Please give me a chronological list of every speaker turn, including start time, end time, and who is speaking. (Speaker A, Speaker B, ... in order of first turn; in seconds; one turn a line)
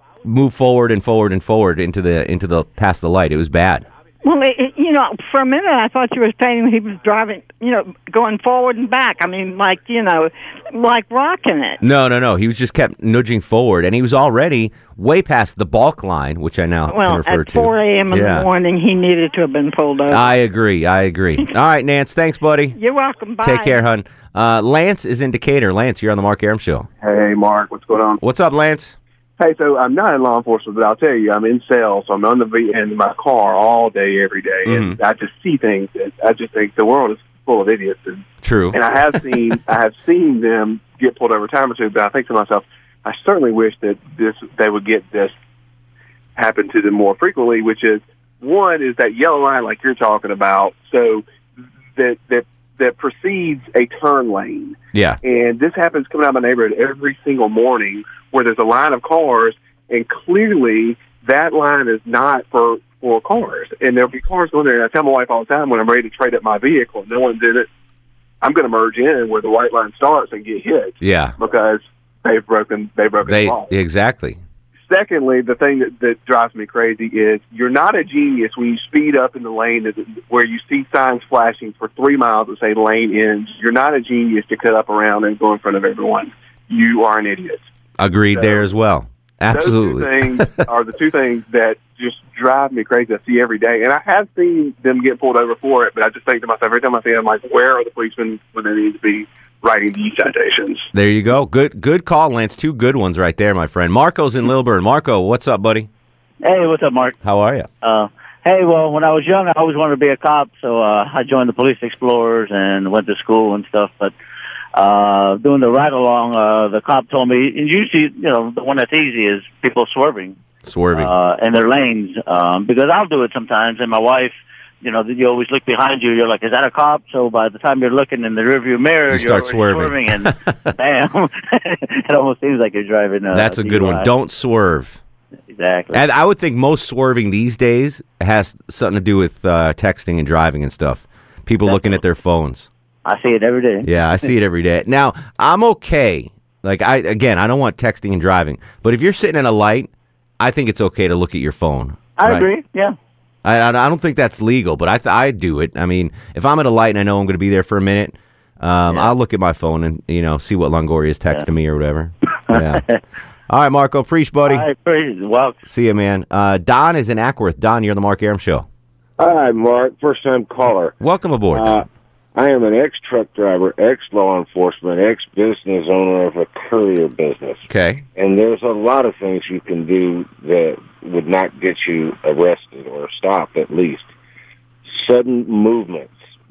Speaker A: 0.2-3.9
Speaker B: 4.2-11.8
Speaker A: 11.8-18.5
Speaker B: 16.9-20.3
Speaker A: 20.1-22.8
Speaker B: 22.8-23.8
Speaker A: 23.4-26.9
Speaker C: 27.0-28.2
Speaker A: 28.2-28.9
Speaker C: 29.4-45.3
Speaker A: 34.6-35.0
Speaker A: 38.4-38.8
Speaker C: 46.3-51.2
Speaker C: 51.9-67.7
Speaker A: 54.9-55.2
Speaker C: 68.4-73.7
Speaker A: 71.0-71.3
Speaker A: 73.2-74.4
Speaker C: 74.8-87.6
Speaker A: 88.0-90.6
Speaker C: 88.3-88.6
Speaker C: 89.5-100.9
Speaker A: 100.9-105.9
Speaker D: 106.4-107.2
Speaker A: 107.2-107.7
Speaker D: 107.8-114.1
Speaker D: 114.8-120.3
Speaker A: 120.6-121.1
Speaker D: 120.9-134.1
Speaker A: 129.1-130.3
Speaker A: 133.3-135.0
Speaker D: 135.5-136.0
Speaker A: 135.9-142.7
Speaker D: 141.7-141.9
Speaker D: 143.0-144.3
Speaker A: 143.9-152.5
Speaker D: 152.2-152.9
Speaker A: 153.4-162.8
Speaker D: 162.5-163.0
Speaker A: 163.5-164.7
Speaker D: 164.4-165.6
Speaker A: 165.7-168.7
Speaker E: 169.2-170.9
Speaker A: 171.0-171.8
Speaker E: 171.5-177.6
Speaker A: 177.7-178.0
Speaker E: 178.2-184.1
Speaker E: 184.9-186.2